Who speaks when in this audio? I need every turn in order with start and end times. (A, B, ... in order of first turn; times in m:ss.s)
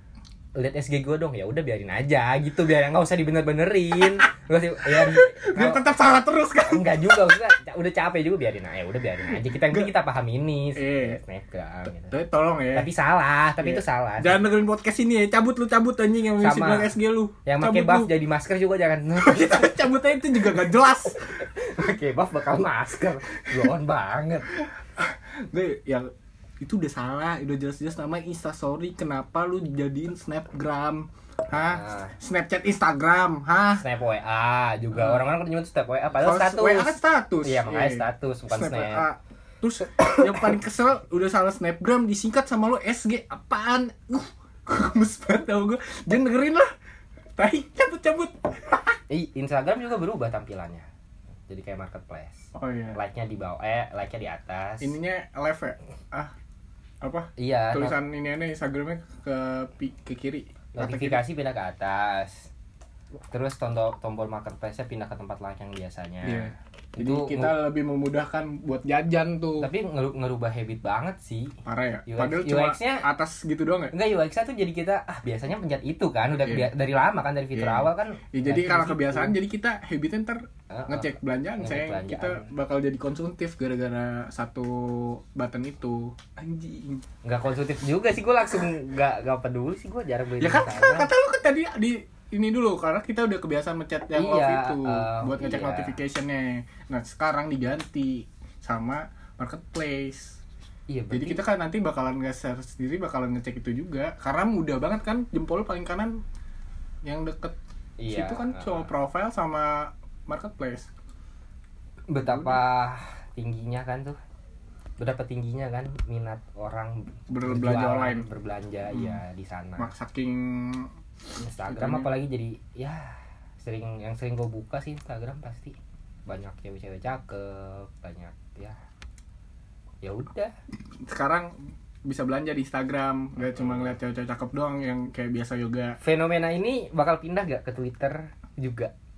0:00.6-0:05.8 A
0:04.9-0:07.4 B
0:06.6-0:12.1 A
0:09.2-0:10.0 B
0:10.7-0:11.2 B
0:12.1-0:12.9 B
0:12.7-0:14.5 A
0:13.6-0:18.1 B
0:16.4-0:16.9 A
0:17.4-0:19.9 A
0:19.1-0:21.5 B
0:21.4-0:24.5 A
0:23.4-0:23.7 B
0:24.5-0:33.8 B
0:31.5-0:32.1 A
0:33.8-0:39.1 A
0:34.9-0:35.2 B
0:36.1-0:46.7 B
0:40.2-0:40.5 A
0:47.4-0:49.0 B
0:49.1-0:50.8 A
0:51.5-0:54.9 A
0:52.5-0:53.0 B
0:54.8-0:56.3 B
0:57.0-1:01.2 B
0:57.4-0:58.0 A
1:00.7-1:02.5 A
1:03.3-1:07.6 A
1:06.2-1:09.7 B
1:09.6-1:13.0 A
1:11.6-1:13.9 B
1:13.9-1:19.4 A
1:16.4-1:16.7 B
1:17.5-1:27.0 B
1:20.7-1:22.5 A
1:27.2-1:31.1 A
1:30.4-1:40.4 B
1:34.1-1:36.0 A
1:40.9-1:41.4 A
1:41.1-1:46.2 B
1:47.0-1:47.6 B
1:48.0-1:48.9 A
1:48.1-1:50.9 B
1:52.1-1:54.2 A
1:52.2-1:52.6 B
1:55.0-1:59.9 A
1:57.3-1:58.3 B
1:58.9-1:59.2 B
1:59.8-2:00.9 B
2:01.4-2:08.8 A
2:01.6-2:02.1 B
2:10.0-2:10.5 A
2:11.1-2:16.0 B
2:13.5-2:13.9 A
2:16.0-2:18.9 A